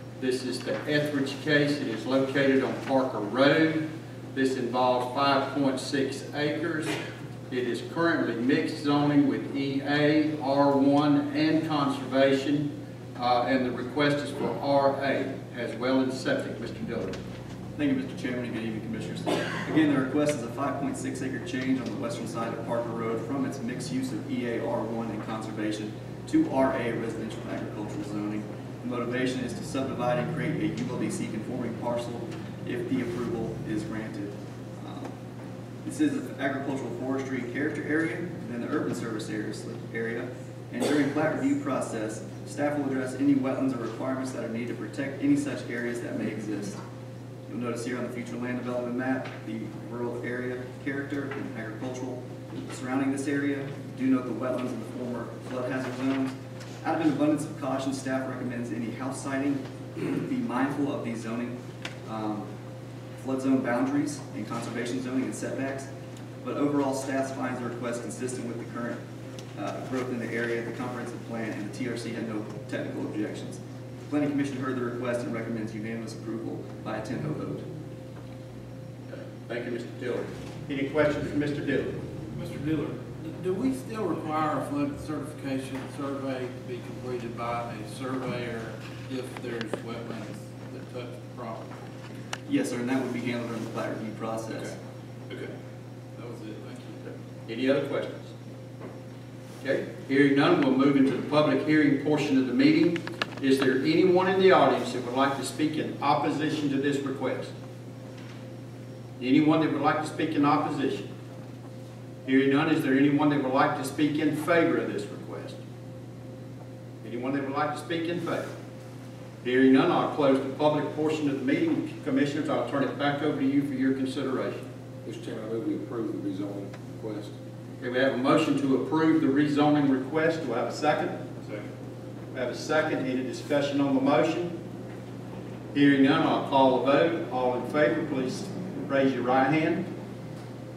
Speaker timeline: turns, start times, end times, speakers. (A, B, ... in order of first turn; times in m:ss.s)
0:00.2-0:06.9 A
0:07.5-0:17.2 A
0:17.8-0:35.1 B
0:35.8-0:46.8 B
0:47.5-1:02.5 B
1:03.2-1:05.9 B
1:06.4-1:09.0 B
1:09.6-1:17.7 B
1:19.1-1:22.0 A
1:22.3-1:31.7 C
1:32.5-1:34.8 B
1:36.2-1:37.0 C
1:37.0-1:38.3 A
1:39.6-1:47.5 A
1:49.2-1:51.1 A
1:52.2-1:55.6 A
1:57.0-1:58.5 A
1:59.4-2:04.6 A
2:05.0-2:07.3 D
2:07.8-2:11.2 A
2:12.3-2:14.5 A
2:15.7-2:19.8 A